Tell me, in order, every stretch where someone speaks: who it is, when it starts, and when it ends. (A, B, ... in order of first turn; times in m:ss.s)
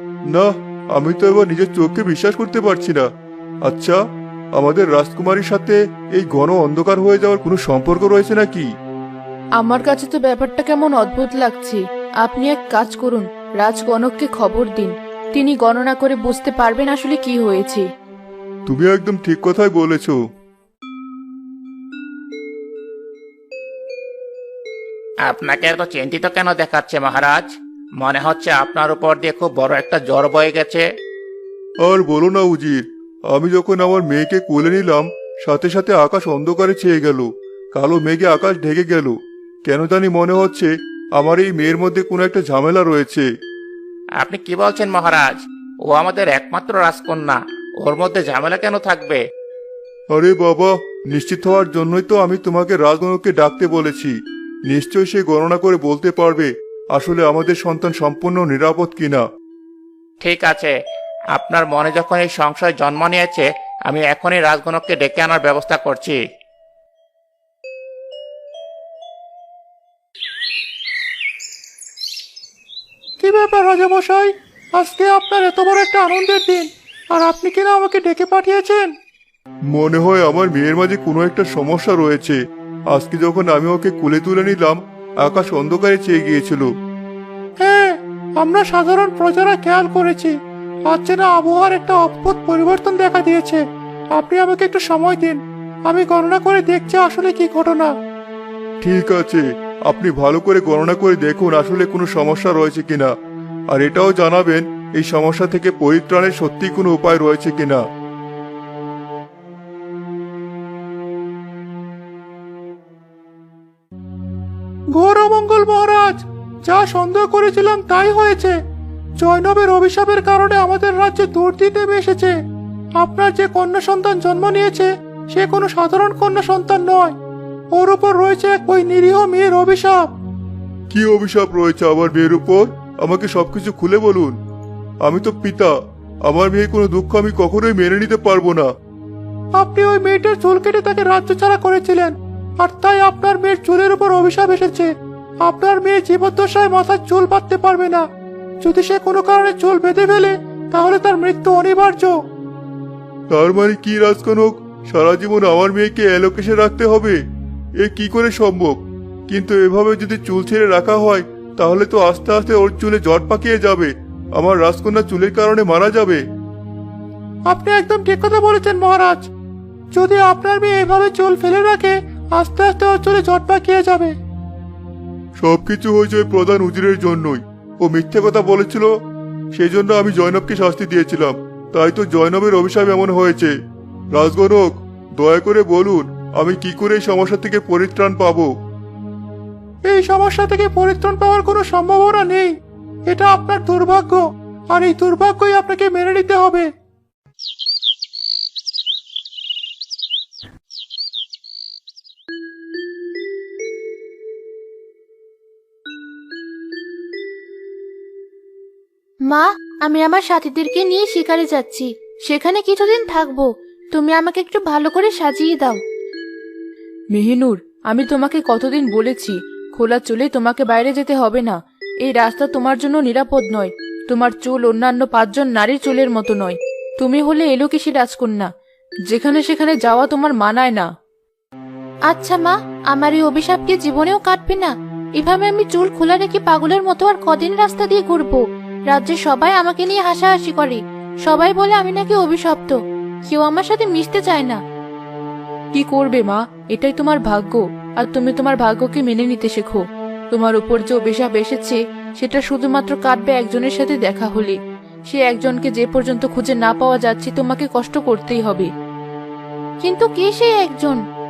0:00.3-0:03.1 A
0:03.6-0:04.0 A
0:04.6-0:08.7 A
0:09.6-0:17.8 B
0:18.7-0:20.2 A
0:25.2-0:30.9 C
0:31.8-0:43.3 A
0:44.2-0:49.2 C
0:50.1-0:54.2 A
0:54.7-0:59.2 A
1:00.2-1:00.7 C
1:01.3-1:06.2 C
1:13.2-1:18.9 D
1:19.7-1:26.7 A
1:27.6-1:30.3 D
1:30.9-1:33.6 D
1:34.1-1:37.9 D
1:38.8-1:43.1 A
1:43.7-1:47.8 A
1:55.0-1:58.6 D
1:59.2-2:02.3 D
2:03.0-2:07.2 D
2:07.7-2:10.1 D
2:10.9-2:14.4 A
2:15.0-2:18.7 A
2:19.6-2:24.9 D
2:25.4-2:28.0 D
2:28.6-2:32.2 D
2:33.3-2:37.2 A
2:37.8-2:46.2 A
2:47.5-2:49.3 D
2:49.9-2:54.2 D
2:55.4-2:58.9 A
2:59.5-3:03.5 A
3:04.1-3:08.5 A
3:09.9-3:12.5 D
3:13.1-3:16.7 D
3:29.3-3:35.8 E
3:37.1-3:48.5 B
3:49.1-3:50.9 B
3:52.1-4:02.8 E
4:03.3-4:04.6 E
4:05.7-4:14.6 B
4:15.1-4:18.7 B
4:19.8-4:21.0 E